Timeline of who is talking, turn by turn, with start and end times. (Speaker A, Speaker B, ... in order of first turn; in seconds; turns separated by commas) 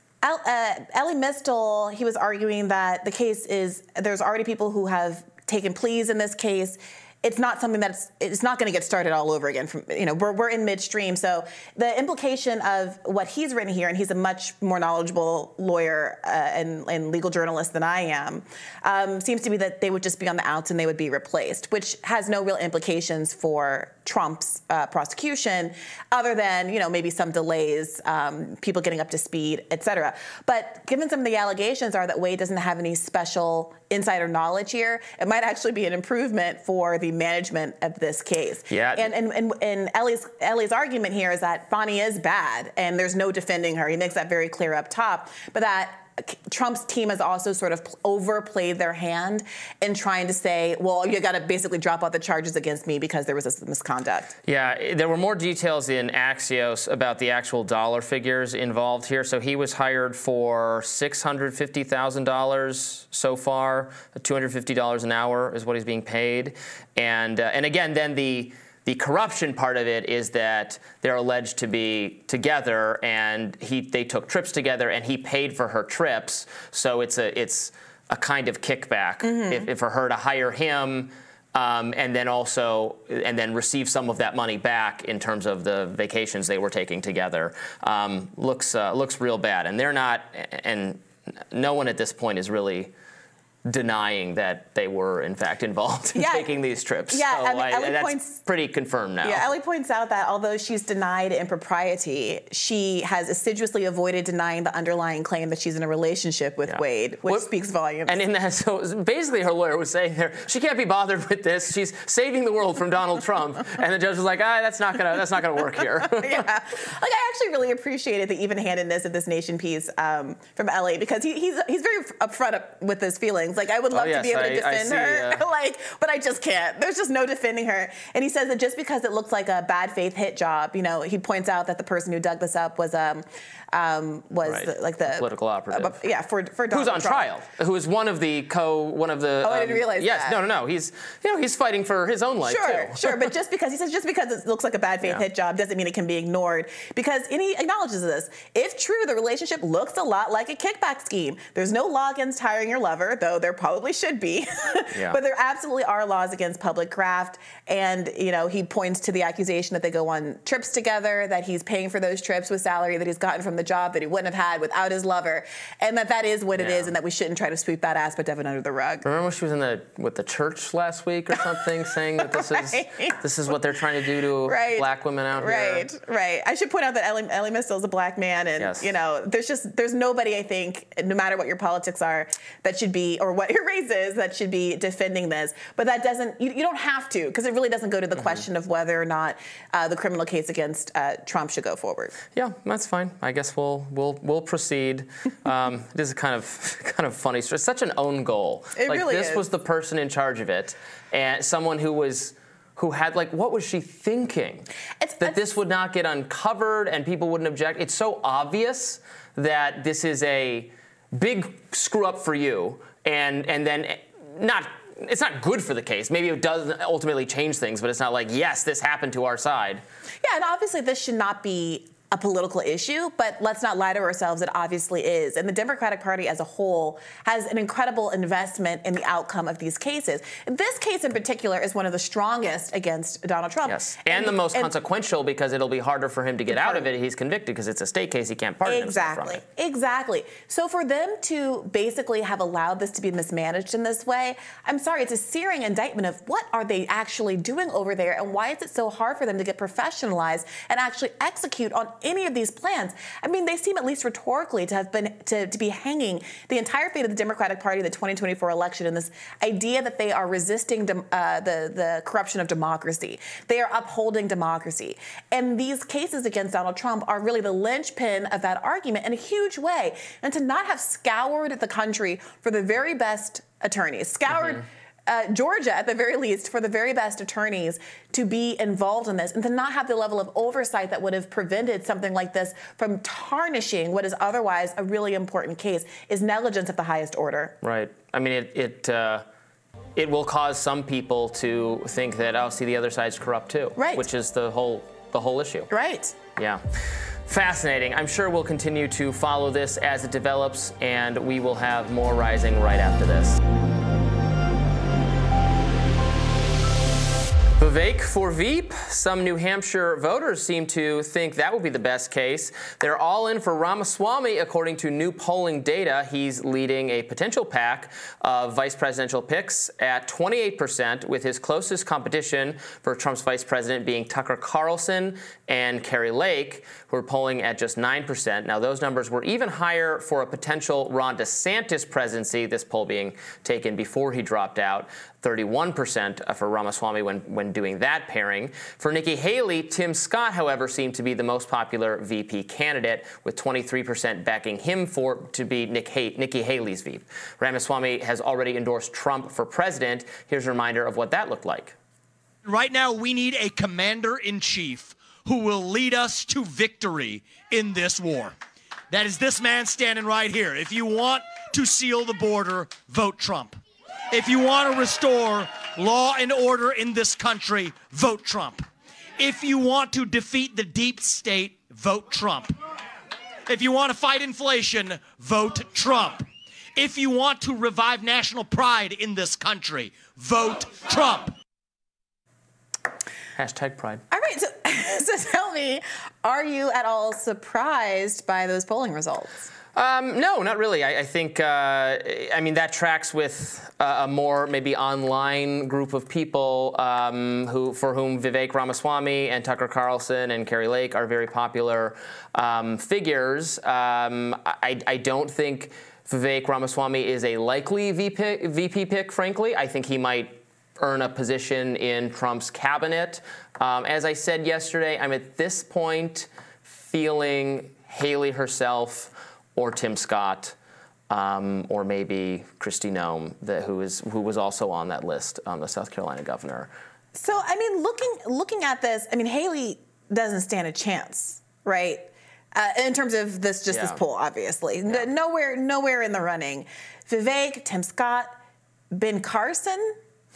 Speaker A: 0.2-54.3, Speaker B: 38.7-39.1, Speaker B: 54.5-92.9, Speaker A: 79.2-79.7, Speaker B: 93.7-99.5, Speaker A: 96.2-96.5, Speaker A: 97.1-98.4, Speaker A: 99.2-108.2, Speaker B: 106.7-107.5, Speaker B: 108.1-116.4, Speaker A: 116.1-137.3, Speaker B: 123.9-125.4, Speaker B: 134.4-136.0, Speaker B: 136.7-143.3, Speaker A: 139.4-140.4, Speaker A: 142.4-169.0, Speaker B: 154.9-155.2, Speaker B: 166.6-166.9, Speaker B: 169.0-175.9, Speaker A: 172.2-173.5, Speaker A: 174.4-192.2, Speaker B: 178.6-178.9, Speaker B: 188.2-188.4, Speaker B: 192.4-204.7, Speaker A: 198.8-199.4, Speaker A: 205.0-205.3, Speaker B: 205.2-219.8, Speaker A: 220.2-234.7, Speaker B: 233.7-239.4, Speaker A: 236.5-236.9, Speaker A: 238.7-287.6, Speaker B: 287.6-289.2, Speaker B: 290.0-295.7, Speaker A: 293.8-294.1, Speaker A: 295.7-296.2, Speaker B: 296.4-296.6, Speaker B: 297.3-303.4, Speaker B: 307.6-351.8, Speaker C: 352.4-358.4, Speaker C: 358.9-363.6, Speaker C: 364.1-368.6, Speaker C: 369.2-372.5, Speaker C: 373.5-376.2, Speaker C: 376.8-381.3, Speaker B: 383.4-384.0, Speaker A: 384.1-389.5, Speaker B: 389.8-420.6, Speaker B: 421.1-426.7, Speaker A: 427.1-438.3, Speaker B: 433.7-434.0, Speaker A: 438.9-440.0